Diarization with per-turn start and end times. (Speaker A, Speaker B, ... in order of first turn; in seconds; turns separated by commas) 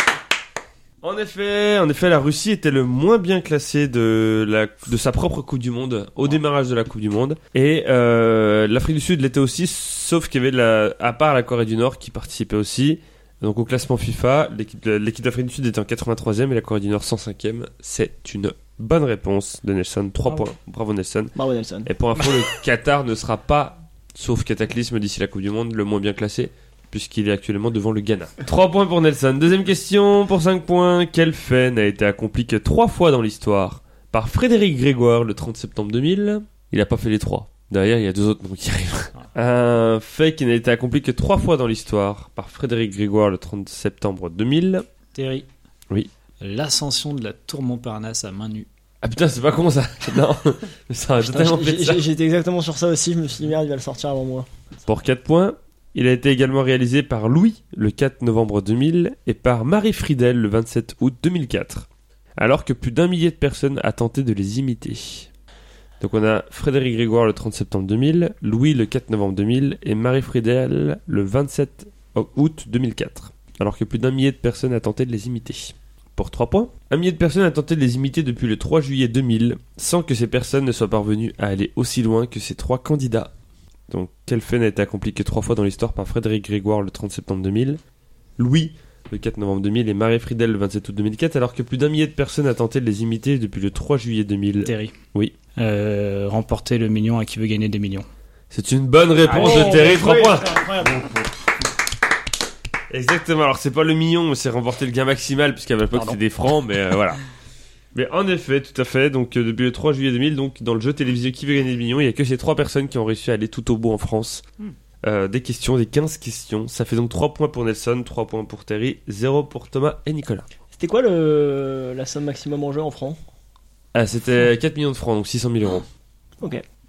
Speaker A: 1.0-21.3, Speaker B: 21.4-21.9, Speaker A: 21.9-44.9, Speaker C: 45.1-45.5, Speaker C: 46.4-48.7, Speaker A: 49.0-52.0, Speaker B: 51.2-54.5, Speaker A: 54.9-61.9, Speaker A: 62.4-65.3, Speaker A: 66.0-83.3, Speaker A: 83.9-87.8, Speaker A: 88.4-95.3, Speaker C: 94.7-95.0, Speaker C: 95.5-98.1, Speaker A: 98.5-100.5, Speaker B: 99.2-101.1, Speaker C: 99.3-100.0, Speaker A: 102.9-107.2, Speaker A: 108.0-114.5, Speaker A: 115.0-120.5, Speaker B: 120.8-123.2, Speaker A: 123.9-125.8